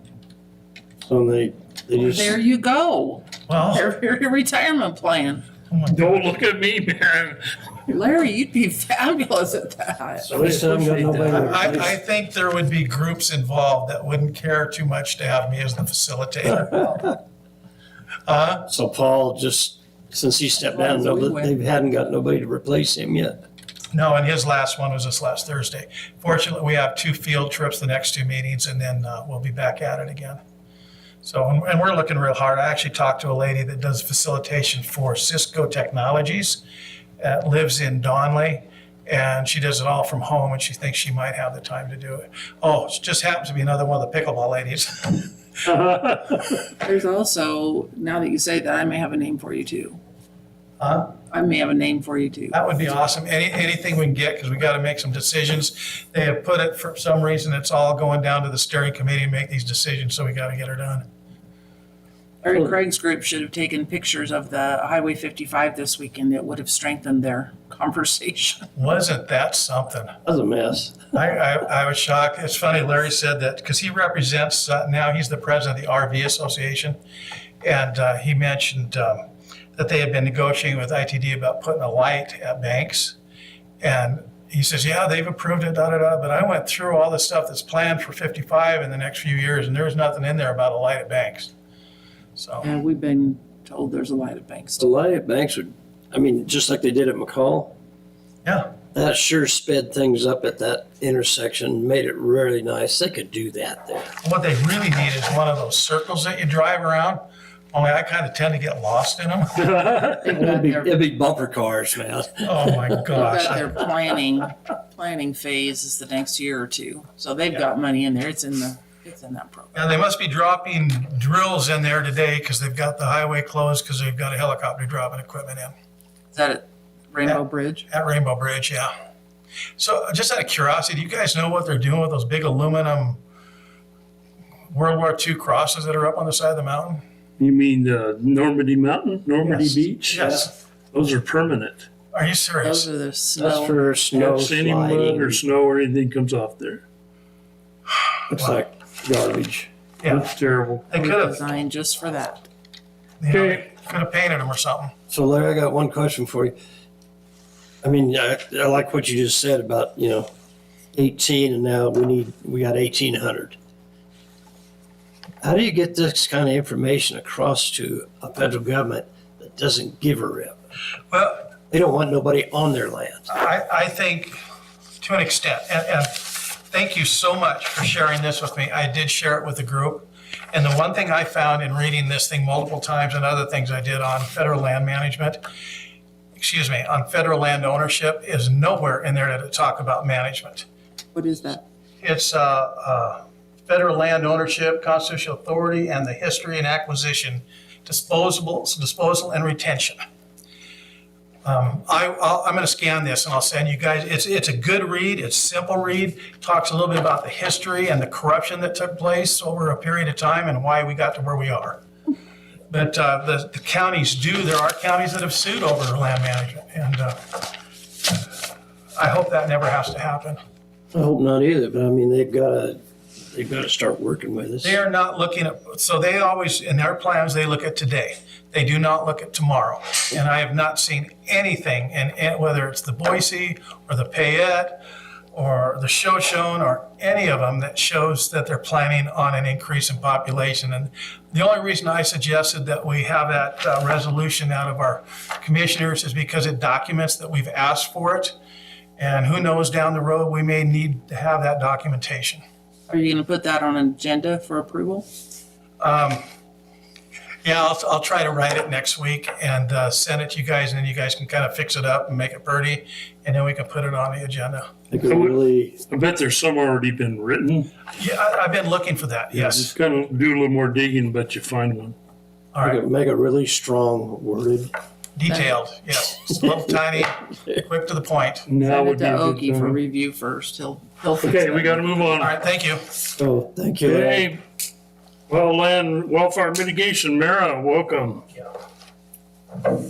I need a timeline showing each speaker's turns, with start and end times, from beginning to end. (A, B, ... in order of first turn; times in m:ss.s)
0:01.0-0:02.4 A
0:02.0-0:05.5 B
0:03.5-0:03.9 C
0:05.7-0:06.3 C
0:05.9-0:07.4 D
0:07.9-0:10.4 B
0:10.2-0:12.0 A
0:10.3-0:11.7 D
0:11.4-0:17.1 C
0:18.3-0:18.7 C
0:18.7-0:23.4 A
0:20.6-0:21.6 B
0:23.9-0:30.4 C
0:31.2-0:36.6 C
0:37.2-0:45.3 C
0:45.7-0:46.6 D
0:46.8-0:50.0 B
0:50.8-0:51.2 C
0:51.3-0:52.6 B
0:52.5-1:01.0 C
1:02.4-1:08.7 B
1:08.8-1:10.2 C
1:10.2-1:11.0 A
1:11.1-1:17.0 C
1:17.6-1:19.2 C
1:19.8-1:23.2 C
1:23.8-1:31.5 C
1:32.4-1:32.7 C
1:32.6-1:34.9 B
1:34.8-1:37.8 A
1:38.4-1:38.7 C
1:38.9-1:44.1 A
1:44.2-1:47.2 C
1:47.7-1:49.6 C
1:49.6-1:50.3 D
1:50.2-1:51.0 B
1:50.3-1:53.0 A
1:52.4-1:53.7 C
1:53.1-1:59.9 B
1:59.7-2:05.7 C
2:06.3-2:07.9 B
2:07.3-2:08.9 C
2:09.8-2:13.2 C
2:14.7-2:17.0 C
2:17.4-2:20.2 D
2:19.4-2:20.5 A
2:20.1-2:20.5 C
2:20.9-2:21.9 D
2:22.1-2:22.9 C
2:22.6-2:23.8 B
2:23.4-2:25.4 A
2:24.1-2:26.8 D
2:28.3-2:29.7 A
2:30.0-2:30.3 C
2:30.1-2:30.9 D
2:30.9-2:31.4 C
2:30.9-2:32.5 B
2:33.2-2:34.9 C
2:33.3-2:33.6 D
2:35.1-2:36.6 A
2:37.8-2:40.3 A
2:40.9-2:43.6 A
2:45.4-2:50.6 A
2:51.1-2:51.5 C
2:51.7-2:53.3 A
2:53.3-2:54.4 C
2:55.0-3:05.4 C
3:06.4-3:10.7 C
3:11.2-3:11.6 B
3:12.0-3:20.0 C
3:21.4-3:31.8 C
3:32.7-3:37.4 C
3:39.0-3:40.4 C
3:40.9-3:42.8 A
3:43.3-3:44.8 A
3:44.6-3:54.8 C
3:55.3-4:08.3 C
4:09.0-4:12.4 C
4:12.9-4:15.1 B
4:15.8-4:16.2 C
4:17.4-4:24.7 C
4:24.9-4:25.8 A
4:25.1-4:27.7 D
4:27.9-4:29.8 C
4:29.4-4:32.0 D
4:32.5-4:32.8 C
4:32.6-4:34.7 A
4:35.2-4:38.5 C
4:35.3-4:35.5 B
4:38.5-4:39.8 D
4:38.6-4:42.1 B
4:41.2-4:42.3 D
4:42.2-4:42.9 C
4:43.2-4:44.3 A
4:43.8-4:44.4 D
4:45.3-4:48.3 D